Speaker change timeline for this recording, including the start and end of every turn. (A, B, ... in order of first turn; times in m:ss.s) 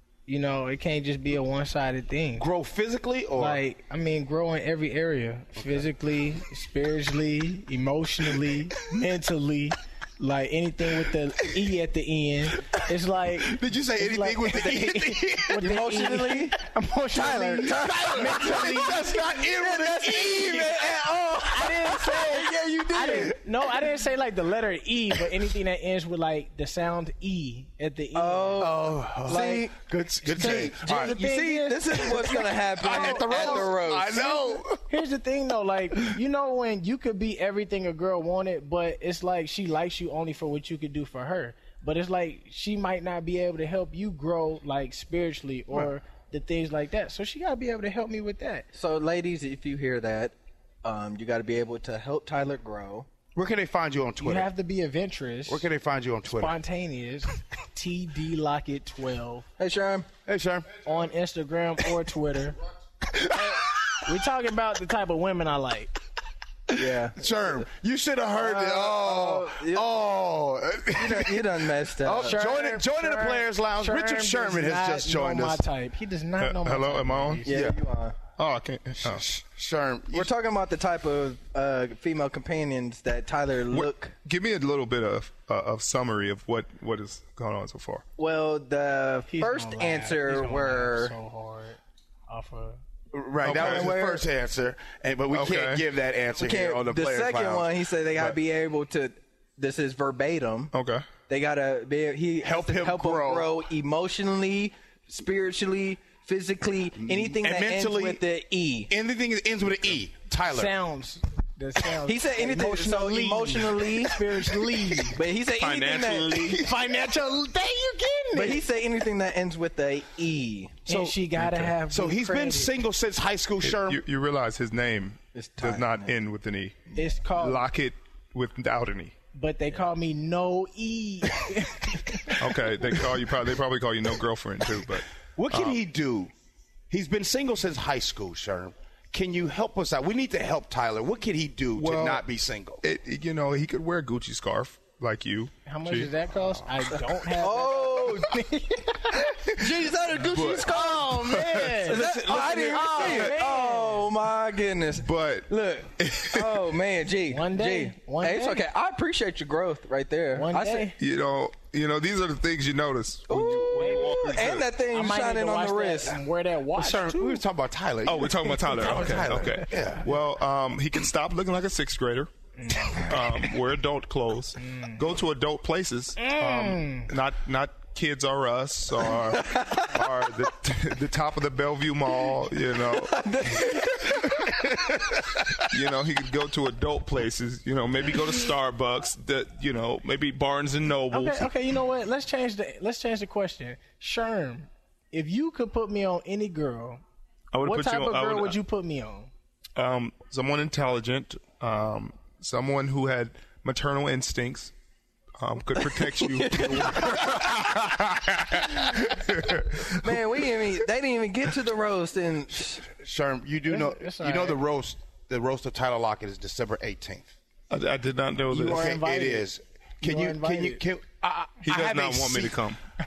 0:00.3-0:02.5 A
0:02.4-0:03.6 B
0:03.4-0:19.2 A
0:05.6-0:05.9 B
0:13.4-0:15.7 B
0:14.5-0:15.0 C
0:15.5-0:16.6 C
0:17.1-0:23.4 C
0:17.6-0:22.2 B
0:21.5-0:28.7 A
0:28.1-0:34.6 C
0:28.6-0:31.2 B
0:30.3-0:33.7 A
0:32.1-0:34.8 B
0:34.9-0:48.7 A
0:48.7-0:53.1 C
0:53.4-0:54.5 B
0:54.2-0:55.7 A
0:55.5-0:56.6 B
0:56.2-0:59.5 A
0:59.6-1:00.1 C
1:00.3-1:00.7 B
1:00.8-1:02.6 A
1:03.1-1:03.6 B
1:03.3-1:05.9 A
1:06.7-1:07.6 C
1:06.7-1:11.4 B
1:08.4-1:09.9 C
1:10.9-1:12.5 C
1:11.9-1:15.6 B
1:12.1-1:17.6 A
1:16.4-1:17.4 D
1:17.4-1:18.2 C
1:17.5-1:17.8 B
1:18.4-1:19.2 D
1:19.0-1:20.3 B
1:20.1-1:24.2 C
1:23.7-1:28.0 D
1:28.2-1:31.1 C
1:29.3-1:32.8 A
1:33.1-1:38.4 B
1:33.4-1:34.0 D
1:33.5-1:34.3 C
1:35.3-1:35.8 D
1:36.4-1:40.7 C
1:40.7-1:41.1 D
1:41.3-1:48.9 C
1:42.4-1:43.5 B
1:47.0-1:48.2 B
1:48.9-1:50.7 B
1:50.5-1:55.2 A
1:52.0-1:54.3 C
1:55.0-1:56.6 C
1:55.5-1:56.7 D
1:56.6-1:58.6 A
1:58.3-2:00.8 C
2:00.9-2:02.7 A
2:00.9-2:04.0 B
2:03.7-2:09.2 D
2:05.3-2:06.1 C
2:07.0-2:07.6 A
2:09.3-2:12.6 A
2:12.4-2:15.8 D
2:15.4-2:16.3 B
2:16.9-2:22.8 B
2:21.8-2:22.2 D
2:22.8-2:26.1 D
2:25.7-2:29.4 A
2:27.4-2:28.4 C
2:29.4-2:31.1 C
2:30.3-2:30.7 D
2:30.3-2:33.4 B
2:30.7-2:34.1 A
2:31.9-2:40.9 C
2:35.0-2:36.5 D
2:37.3-2:38.7 A
2:40.4-2:41.0 A
2:41.0-2:44.7 D
2:43.3-2:46.2 C
2:43.7-2:44.3 A
2:44.9-2:47.4 A
2:46.8-2:50.0 B
2:48.1-2:52.3 D
2:52.6-2:53.1 A
2:52.9-3:03.2 D
2:54.6-2:55.0 A
2:56.2-2:57.1 A
2:59.2-2:59.9 C
3:02.9-3:04.9 C
3:05.7-3:11.5 D
3:11.1-3:17.0 A
3:17.5-3:18.6 D
3:17.6-3:19.3 A
3:19.8-3:24.7 D
3:25.4-3:30.2 D
3:25.8-3:27.6 C
3:29.9-3:32.9 C
3:32.9-3:37.3 B
3:33.7-3:34.6 A
3:37.7-3:39.0 D
3:38.5-3:40.8 A
3:38.6-3:42.6 B
3:41.6-3:42.8 D